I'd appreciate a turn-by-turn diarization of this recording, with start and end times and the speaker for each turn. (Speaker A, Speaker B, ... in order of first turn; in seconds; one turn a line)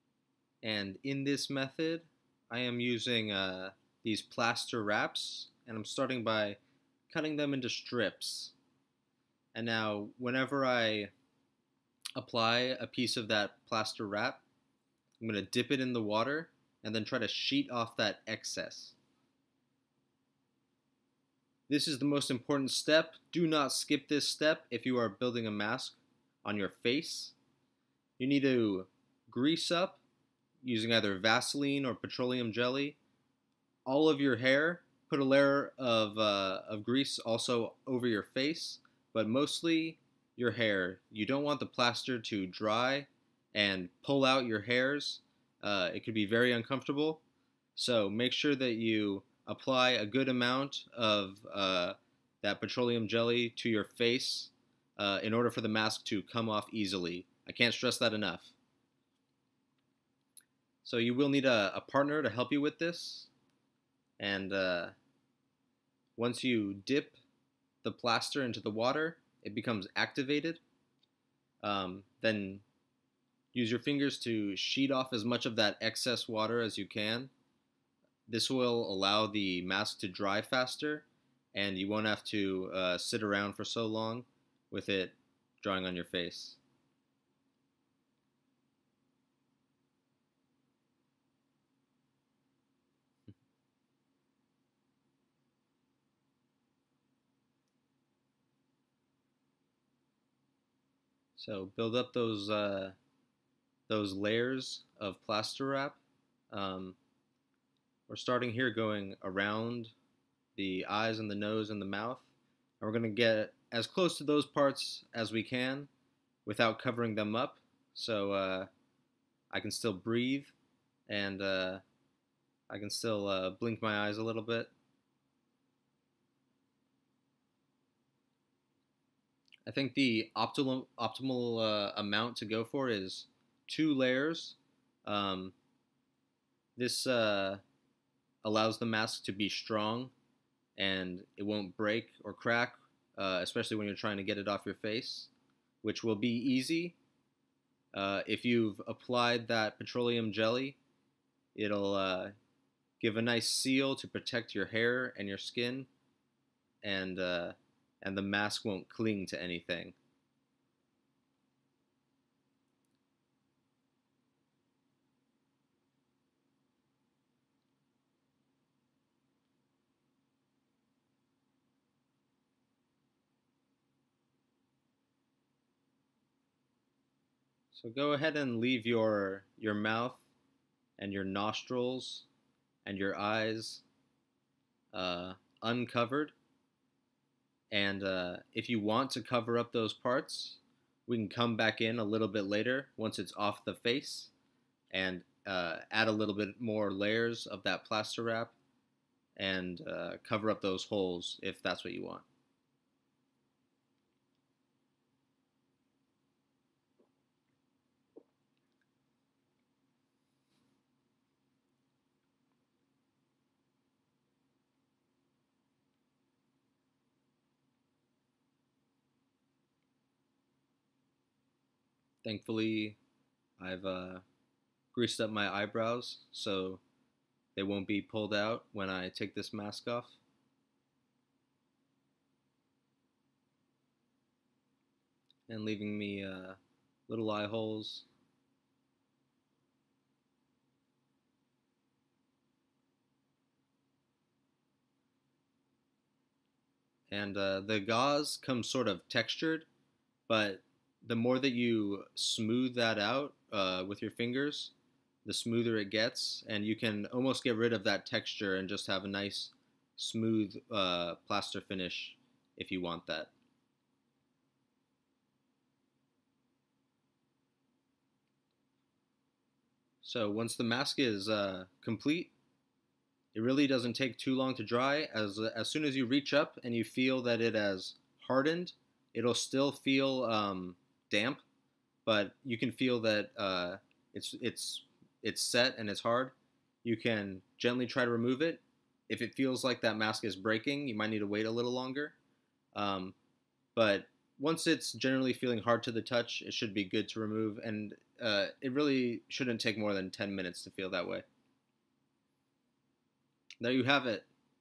Speaker A: 0.6-6.6
Speaker A: 7.1-8.5
Speaker A: 9.5-11.1
Speaker A: 12.2-14.4
Speaker A: 15.2-19.0
Speaker A: 21.7-27.4
Speaker A: 28.2-30.0
Speaker A: 30.6-33.0
Speaker A: 33.9-47.2
Speaker A: 47.8-58.5
Speaker A: 60.8-63.3
Speaker A: 64.2-64.9
Speaker A: 66.2-67.2
Speaker A: 67.8-70.6
Speaker A: 71.6-72.6
Speaker A: 73.5-77.3
Speaker A: 78.3-86.6
Speaker A: 101.4-103.0
Speaker A: 103.9-106.0
Speaker A: 106.5-107.0
Speaker A: 108.1-109.9
Speaker A: 110.5-112.2
Speaker A: 112.8-115.9
Speaker A: 116.5-118.7
Speaker A: 119.5-120.5
Speaker A: 121.1-121.8
Speaker A: 122.7-124.7
Speaker A: 129.7-135.6
Speaker A: 136.8-137.6
Speaker A: 138.4-140.1
Speaker A: 140.8-145.3
Speaker A: 145.8-147.0
Speaker A: 147.9-150.8
Speaker A: 151.6-152.3
Speaker A: 153.0-155.9
Speaker A: 156.8-160.0
Speaker A: 177.7-180.2
Speaker A: 181.0-182.3
Speaker A: 182.8-183.8
Speaker A: 184.9-186.3
Speaker A: 187.7-194.3
Speaker A: 194.9-198.6
Speaker A: 199.4-202.2
Speaker A: 222.2-223.0
Speaker A: 223.6-224.2
Speaker A: 224.9-226.8
Speaker A: 227.6-230.2
Speaker A: 235.5-238.1
Speaker A: 247.1-249.7
Speaker A: 250.3-254.7
Speaker A: 255.2-263.3
Speaker A: 270.0-272.3
Speaker A: 273.3-281.4
Speaker A: 282.1-292.2
Speaker A: 292.8-293.1
Speaker A: 293.8-301.3
Speaker A: 303.6-304.3